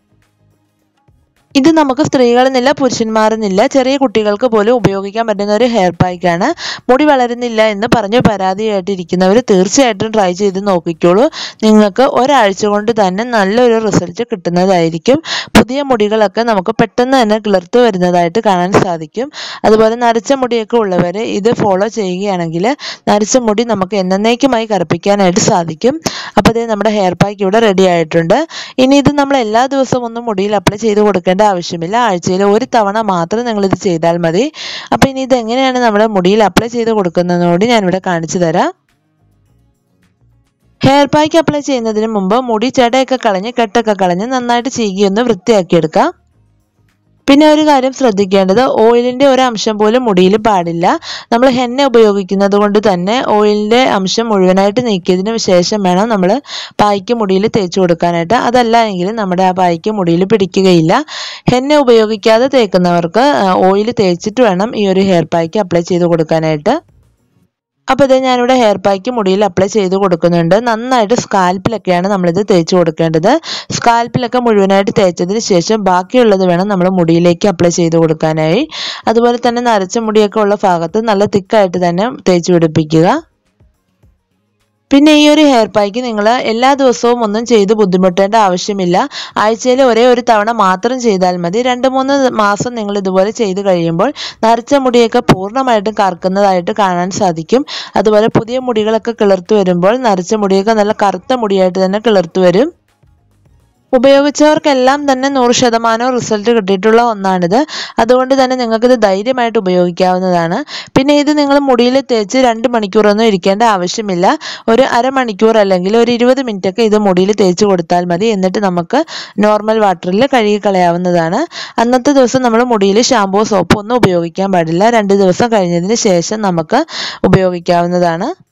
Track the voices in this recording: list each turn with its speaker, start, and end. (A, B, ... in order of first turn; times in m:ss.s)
0:01.6-0:38.7 A
0:40.9-0:46.1 A
0:47.3-1:01.0 A
1:01.5-1:06.7 A
1:07.9-1:23.1 A
1:24.9-1:42.7 A
1:44.0-2:08.3 A